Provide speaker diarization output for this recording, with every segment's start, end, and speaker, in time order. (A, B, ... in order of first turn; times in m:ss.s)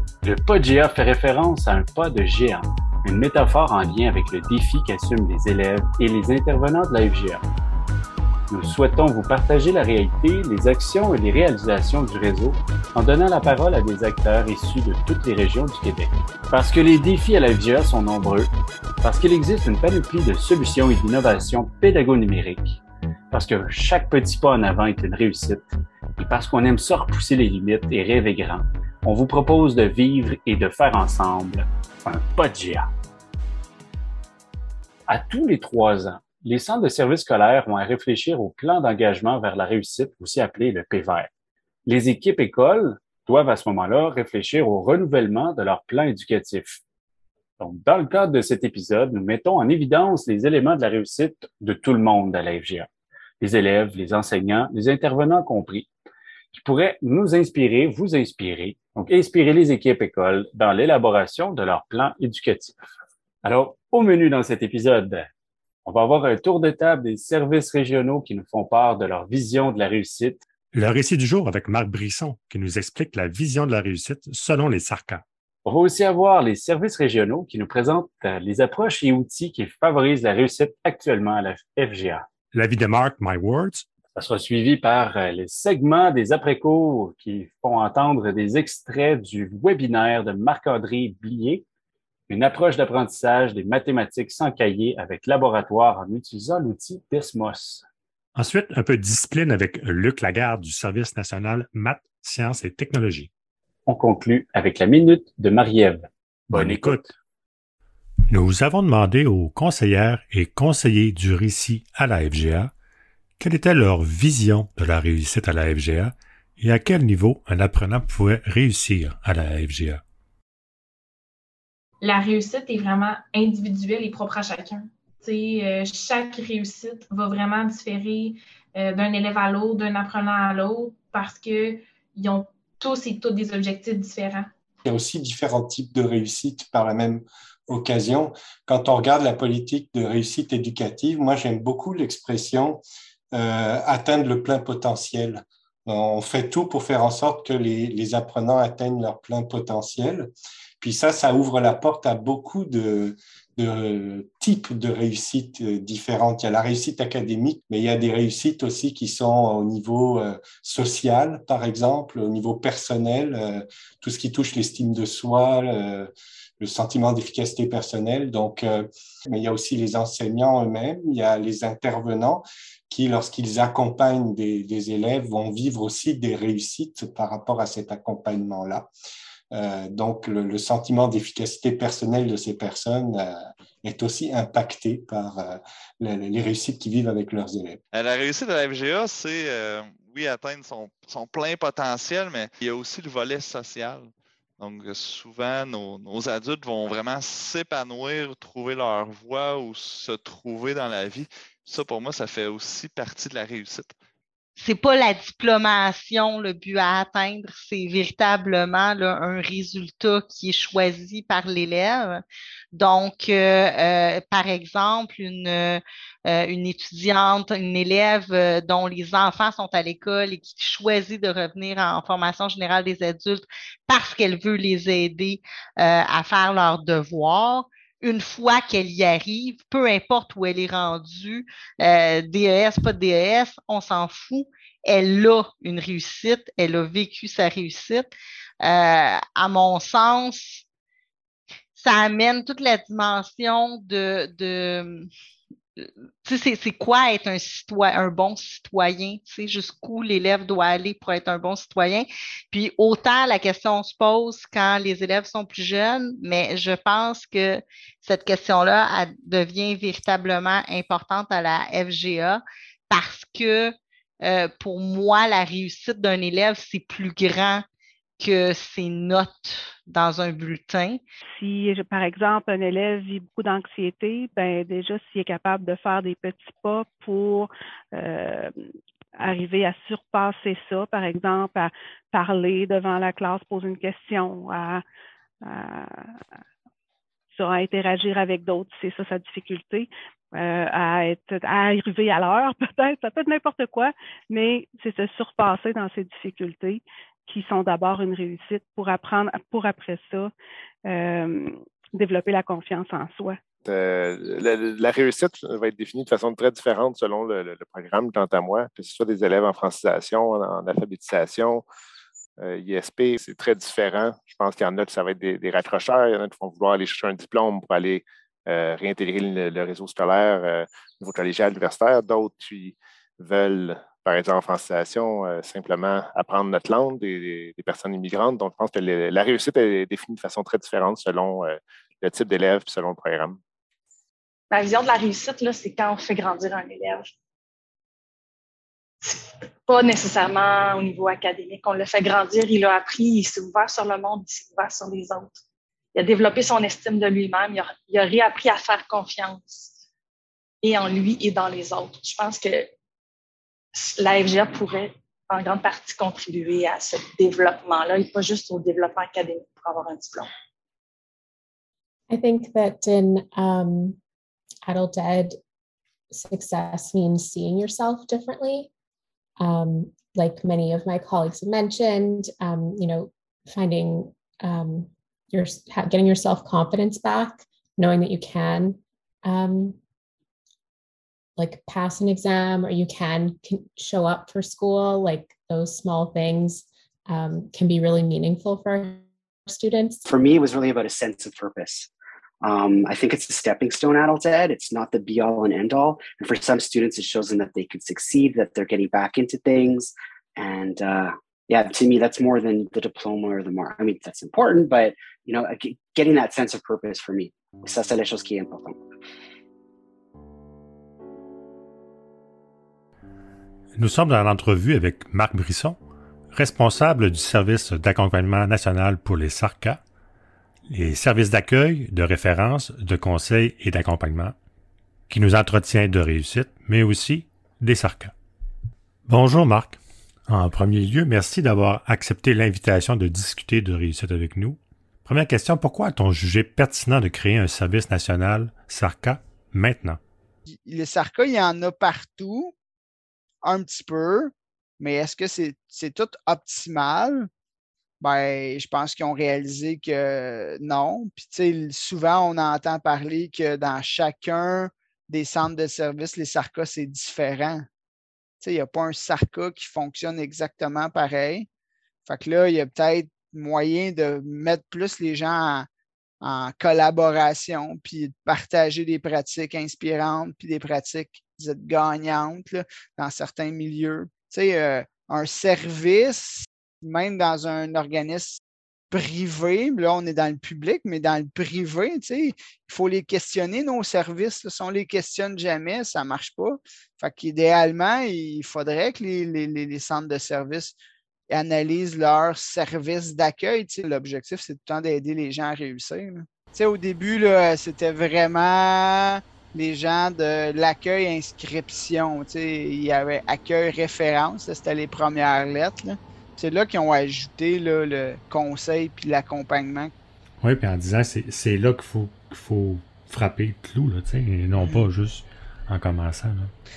0:00.2-0:07.4 A
0:08.5-0:18.5 A
0:19.0-0:22.8 A
0:23.3-0:32.9 A
0:35.1-0:41.3 A
0:41.9-0:46.8 A
0:47.6-0:52.9 A
0:53.4-0:55.9 A
0:56.5-1:02.8 A
1:03.4-1:05.3 A
1:05.8-1:10.4 A
1:10.7-1:15.2 B
1:15.6-1:22.2 A
1:22.5-1:23.8 B
1:24.2-1:31.6 A
1:32.3-1:37.8 A
1:38.4-1:43.3 B
1:43.9-1:47.1 A
1:46.5-1:47.1 B
1:48.3-1:52.7 B
1:53.4-2:00.0 B
2:02.0-2:14.5 C
2:14.8-2:58.9 D
2:59.5-3:07.8 D
3:07.9-3:24.0 E
3:24.6-3:32.2 F
3:32.7-3:58.1 F
3:58.6-4:00.6 F
4:01.8-4:05.1 F
4:05.8-4:27.6 F
4:28.2-4:31.0 F
4:31.3-4:38.6 G
4:39.2-4:44.8 G
4:45.4-4:46.2 G
4:47.3-5:00.3 G
5:00.9-5:03.4 G
5:03.6-5:11.6 H
5:12.4-5:33.4 H
5:34.5-5:37.1 I
5:39.0-5:45.4 I
5:46.0-5:49.8 I
5:50.6-5:52.7 I
5:53.8-6:00.3 I
6:02.1-6:04.0 J
6:04.7-6:05.4 J
6:06.1-6:08.7 J
6:09.4-6:19.8 J
6:21.4-6:30.0 J
6:30.1-6:31.9 K
6:32.4-6:48.8 K
6:53.8-6:55.8 B
6:56.3-6:59.8 B
7:00.7-7:04.4 B
7:05.1-7:08.1 B
7:09.1-7:20.0 B
7:20.5-7:22.5 L
7:23.4-7:27.3 L
7:28.0-7:37.7 L
7:38.4-7:41.5 L
7:42.1-7:45.7 L
7:46.2-7:58.4 L
7:58.9-8:10.8 L
8:11.3-8:29.9 L
8:30.4-8:36.5 B
8:34.6-8:34.8 L